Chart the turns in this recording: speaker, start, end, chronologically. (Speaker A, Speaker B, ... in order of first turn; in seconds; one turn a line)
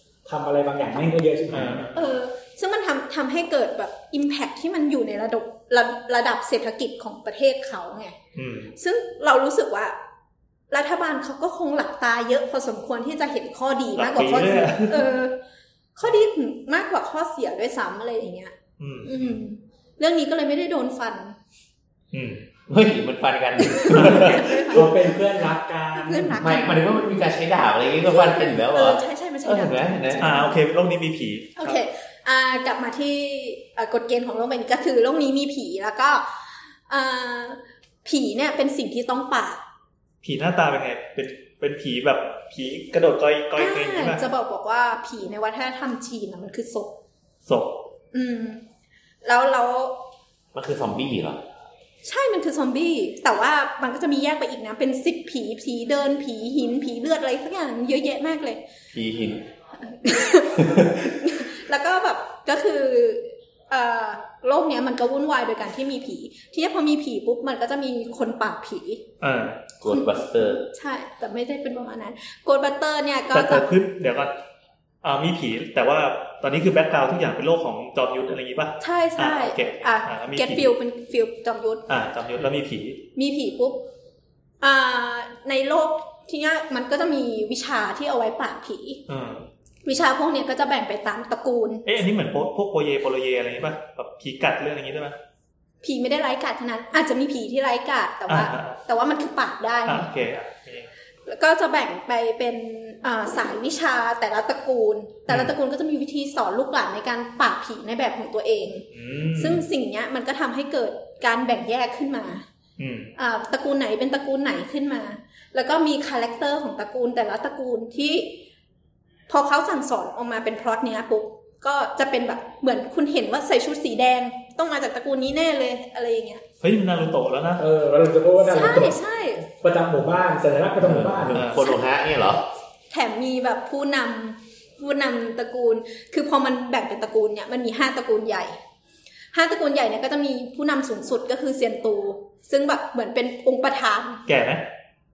Speaker A: 0.2-1.9
Speaker B: 1.5-1.9
Speaker C: 1.9-8.2
Speaker B: 8.3-8.7
Speaker C: 8.8-10.0
Speaker C: 10.7-15.4
Speaker B: 13.9-15.1
Speaker C: 15.9-18.5
Speaker B: 18.8-19.4
Speaker C: 19.0-21.4
Speaker B: 22.1-22.4
Speaker D: 22.7-24.8
Speaker C: 23.6-25.2
Speaker B: 23.9-24.4
Speaker A: 24.1-26.5
Speaker C: 25.9-27.0
Speaker D: 26.4-30.3
Speaker C: 28.1-30.5
Speaker B: 30.2-31.8
Speaker C: 31.6-39.6
Speaker B: 40.2-44.2
Speaker C: 43.5-47.0
Speaker B: 47.5-47.7
Speaker C: 48.1-48.6
Speaker C: 49.2-50.0
Speaker D: 50.5-51.4
Speaker C: 52.0-58.6
Speaker D: 58.9-59.4
Speaker C: 59.8-69.0
Speaker D: 60.6-61.1
Speaker B: 69.2-69.6
Speaker D: 69.8-70.6
Speaker C: 69.9-73.7
Speaker B: 73.3-74.3
Speaker B: 75.0-80.7
Speaker C: 78.8-81.8
Speaker B: 81.9-83.0
Speaker C: 83.2-83.8
Speaker C: 84.6-89.0
Speaker B: 89.1-89.5
Speaker C: 89.8-91.9
Speaker B: 91.8-95.2
Speaker C: 95.8-100.1
Speaker B: 98.3-98.8
Speaker B: 99.8-100.9
Speaker C: 101.2-112.5
Speaker B: 105.3-105.5
Speaker B: 108.9-109.6
Speaker B: 112.8-113.1
Speaker C: 113.2-118.4
Speaker C: 119.3-126.4
Speaker B: 126.6-127.6
Speaker A: 127.6-129.0
Speaker C: 128.4-129.5
Speaker A: 129.5-131.4
Speaker D: 130.8-132.4
Speaker B: 131.3-131.7
Speaker C: 132.9-138.6
Speaker C: 139.3-144.2
Speaker B: 144.3-144.6